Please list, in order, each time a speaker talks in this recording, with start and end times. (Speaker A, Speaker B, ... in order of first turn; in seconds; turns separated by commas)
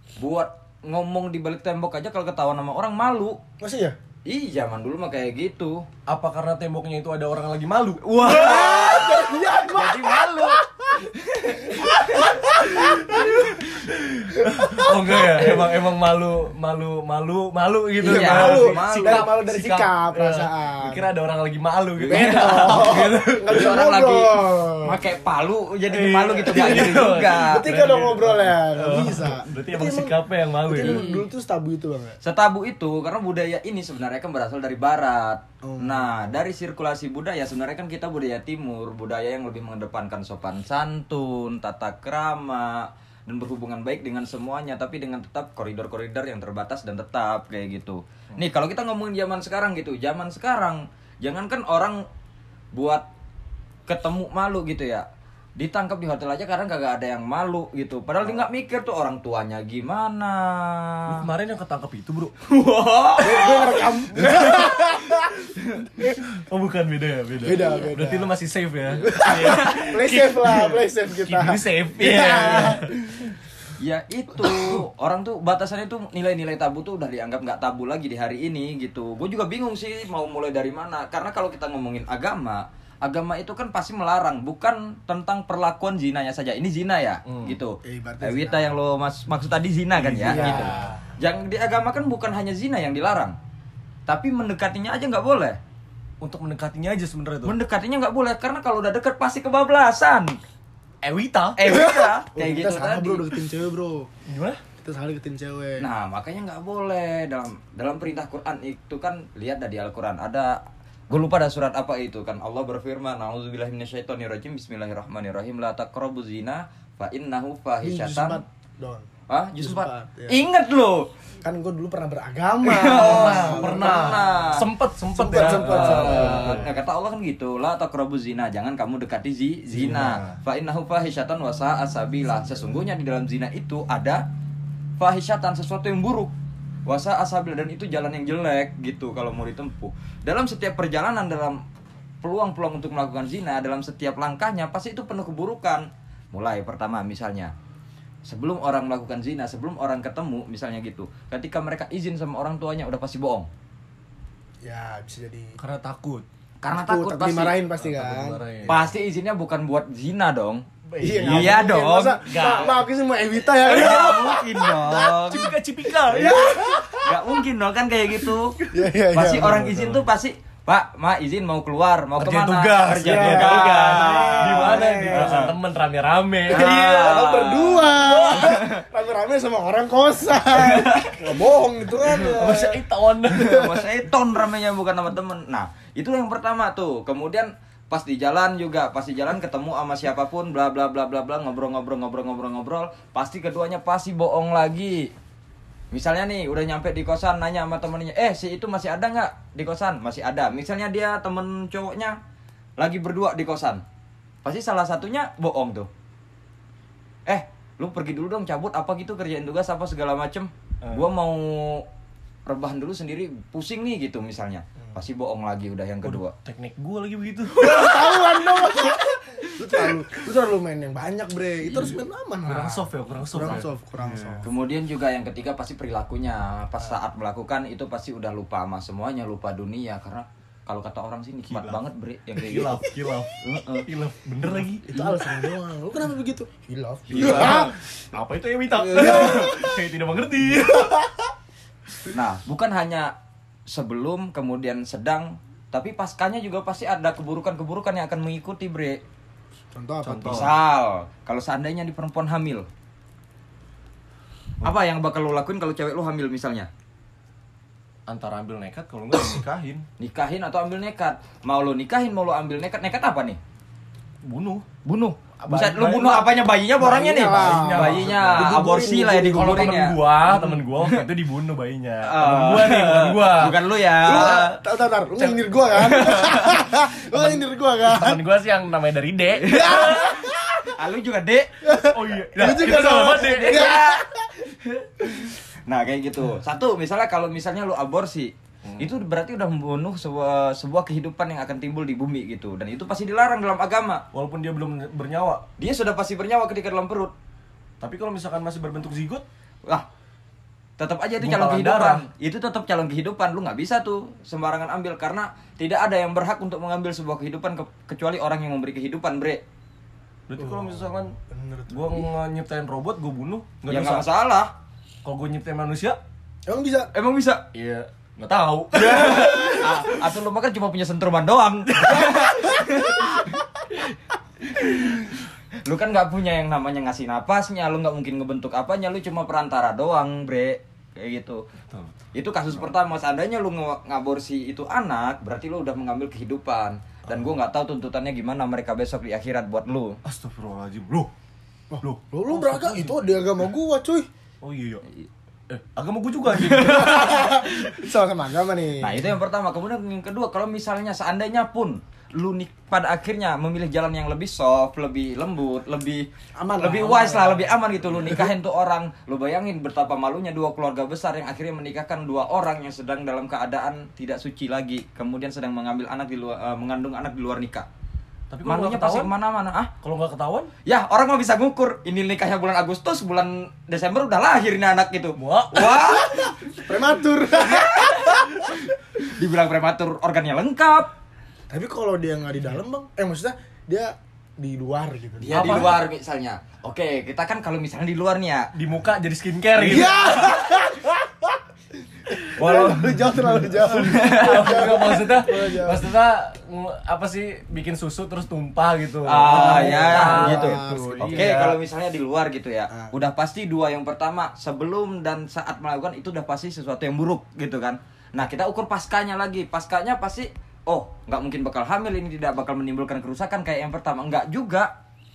Speaker A: 0.2-3.4, Speaker B: 3.6-4.0, Speaker A: 4.3-5.8, Speaker C: 6.1-9.4, Speaker B: 8.2-13.6, Speaker A: 8.4-9.0, Speaker A: 9.7-10.6, Speaker A: 11.4-12.3, Speaker C: 12.2-23.8, Speaker B: 14.3-15.8, Speaker B: 18.0-21.1, Speaker A: 18.0-19.3, Speaker A: 22.0-27.6, Speaker B: 22.1-25.0, Speaker C: 25.9-31.1, Speaker B: 26.8-32.2, Speaker A: 30.8-31.2, Speaker A: 32.2-52.0, Speaker B: 35.6-36.3, Speaker A: 52.7-53.0, Speaker A: 53.9-55.0, Speaker A: 55.6-61.3, Speaker C: 61.1-72.9, Speaker A: 63.1-63.5, Speaker B: 63.2-65.4, Speaker B: 67.4-68.3, Speaker B: 69.0-73.3, Speaker A: 69.3-69.7, Speaker A: 73.8-93.4, Speaker C: 87.3-87.6, Speaker B: 87.8-88.8, Speaker C: 90.0-90.9, Speaker B: 90.2-91.1, Speaker A: 94.1-95.6, Speaker C: 96.2-97.5, Speaker A: 97.4-100.4, Speaker C: 101.0-101.6, Speaker A: 101.6-103.3, Speaker B: 101.7-104.1, Speaker C: 104.3-104.6, Speaker B: 104.8-105.8, Speaker A: 105.8-110.6, Speaker A: 111.1-118.4, Speaker B: 117.8-119.1, Speaker A: 119.3-121.1, Speaker B: 119.6-120.4, Speaker B: 121.4-124.5, Speaker A: 122.7-124.7, Speaker C: 122.8-126.7, Speaker B: 125.1-126.7, Speaker A: 125.3-134.2, Speaker C: 129.7-130.4, Speaker A: 135.0-136.3, Speaker A: 136.9-141.6, Speaker A: 142.2-147.5, Speaker A: 148.3-153.5, Speaker B: 154.6-155.6, Speaker C: 155.6-156.3, Speaker A: 156.6-157.6, Speaker B: 156.7-158.9, Speaker C: 157.8-158.8, Speaker A: 158.7-160.7, Speaker B: 160.9-164.7, Speaker C: 161.0-161.7, Speaker A: 161.2-162.7, Speaker C: 162.2-162.8, Speaker A: 163.6-165.5, Speaker C: 163.7-167.1, Speaker B: 166.1-167.1, Speaker A: 167.0-168.6, Speaker B: 168.7-169.7, Speaker A: 169.1-175.5, Speaker C: 169.4-170.1, Speaker C: 172.2-177.2, Speaker B: 172.9-175.4, Speaker A: 176.5-178.8, Speaker B: 176.5-183.9, Speaker C: 178.0-178.6, Speaker C: 180.6-181.3, Speaker C: 182.3-183.7, Speaker A: 183.3-195.1, Speaker A: 195.9-202.2, Speaker A: 202.8-203.8, Speaker A: 204.4-205.9, Speaker A: 207.3-211.8, Speaker C: 210.8-211.1, Speaker A: 212.5-216.3, Speaker C: 216.0-218.9, Speaker B: 217.6-224.5, Speaker C: 221.7-224.4, Speaker A: 224.4-232.8, Speaker C: 231.4-231.8, Speaker C: 232.4-235.3, Speaker A: 233.4-233.8, Speaker B: 234.9-237.8, Speaker A: 237.1-237.7, Speaker C: 237.1-241.1, Speaker B: 238.9-239.8, Speaker B: 240.7-241.2, Speaker A: 242.1-243.1, Speaker A: 243.7-249.0, Speaker B: 249.7-250.5, Speaker C: 250.0-250.5, Speaker A: 250.3-252.7, Speaker A: 254.6-256.7, Speaker C: 258.1-259.9, Speaker A: 260.0-263.4, Speaker C: 264.2-264.7, Speaker A: 264.9-271.0, Speaker C: 265.4-266.3, Speaker B: 266.8-269.8, Speaker C: 267.1-274.6, Speaker A: 272.0-274.5, Speaker B: 274.0-278.2, Speaker C: 275.2-275.6, Speaker A: 275.8-276.6, Speaker C: 277.1-280.3, Speaker A: 279.3-280.2, Speaker B: 279.5-280.7, Speaker A: 280.7-281.6, Speaker B: 281.6-284.3, Speaker C: 281.7-283.8, Speaker A: 283.2-294.0, Speaker C: 288.6-289.0, Speaker C: 294.1-295.5, Speaker A: 295.6-297.1, Speaker C: 297.8-299.2, Speaker A: 300.8-309.4, Speaker C: 301.2-302.1, Speaker C: 310.3-311.1, Speaker B: 310.4-312.1, Speaker C: 311.7-314.1, Speaker A: 313.7-314.5, Speaker C: 315.0-316.0, Speaker B: 316.5-316.9, Speaker A: 316.9-317.4, Speaker C: 317.5-320.1, Speaker A: 318.7-323.9, Speaker A: 324.5-325.1, Speaker A: 325.6-331.4, Speaker C: 331.7-332.7, Speaker A: 332.1-340.0, Speaker C: 340.0-341.1, Speaker B: 341.7-344.1, Speaker C: 341.8-343.1, Speaker C: 344.4-344.8, Speaker C: 345.5-347.3, Speaker A: 346.3-347.8, Speaker B: 346.6-349.1, Speaker A: 348.8-356.1, Speaker B: 356.4-357.5, Speaker A: 356.6-367.7, Speaker C: 368.3-369.1, Speaker A: 368.4-369.7, Speaker C: 369.8-370.5, Speaker A: 370.6-376.4, Speaker C: 375.2-376.0, Speaker B: 376.5-378.6, Speaker A: 377.7-380.9, Speaker B: 381.5-385.8, Speaker A: 385.2-388.5, Speaker C: 385.3-385.8, Speaker C: 388.6-390.3, Speaker B: 389.6-391.4, Speaker B: 392.1-395.9, Speaker C: 392.3-401.6, Speaker A: 393.7-394.7, Speaker A: 399.1-414.7, Speaker B: 399.2-401.4